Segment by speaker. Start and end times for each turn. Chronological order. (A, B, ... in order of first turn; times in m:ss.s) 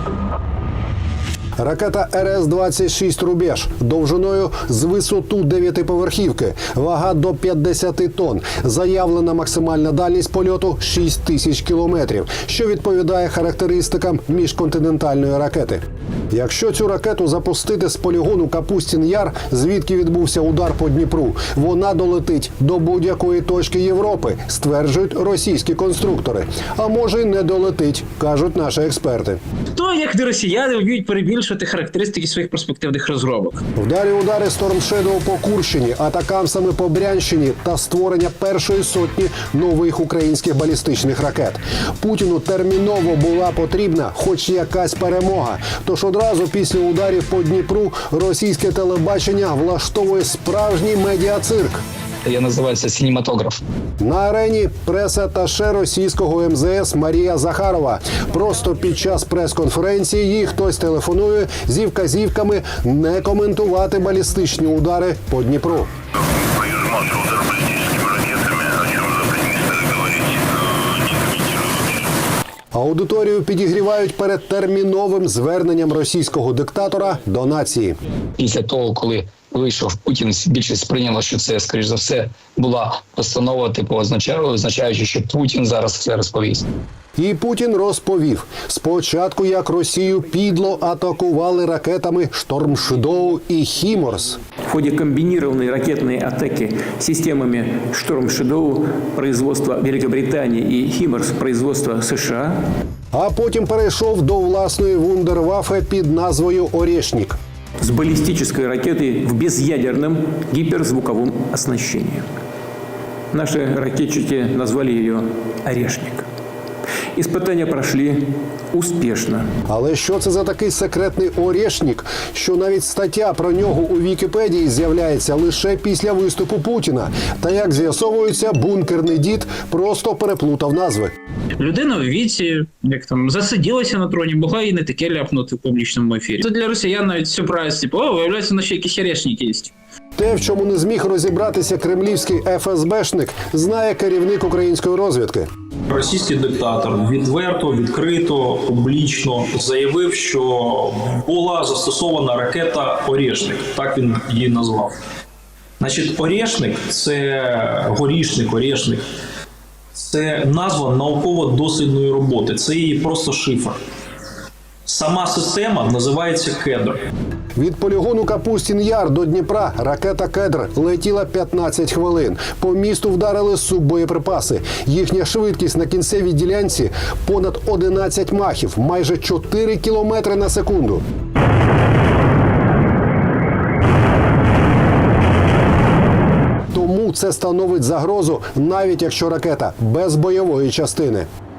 0:01.6-0:29.4 A
0:29.8-0:33.6 B
0:33.8-0:51.8 A
0:52.2-0:53.6 C
0:54.0-1:05.9 A
1:12.7-1:18.0 A
1:18.4-1:26.6 C
1:27.2-1:34.4 A
1:34.7-1:42.6 D
1:43.1-1:47.4 A
1:47.8-1:52.2 D
1:53.3-1:56.2 D
1:57.2-1:59.4 D
1:59.7-2:11.1 A
2:11.6-2:19.7 B
2:20.2-2:25.5 A
2:25.9-2:35.0 E
2:35.8-2:39.0 E
2:40.0-2:43.8 E
2:44.9-2:47.0 E
2:47.6-3:01.0 A
3:06.7-3:11.3 A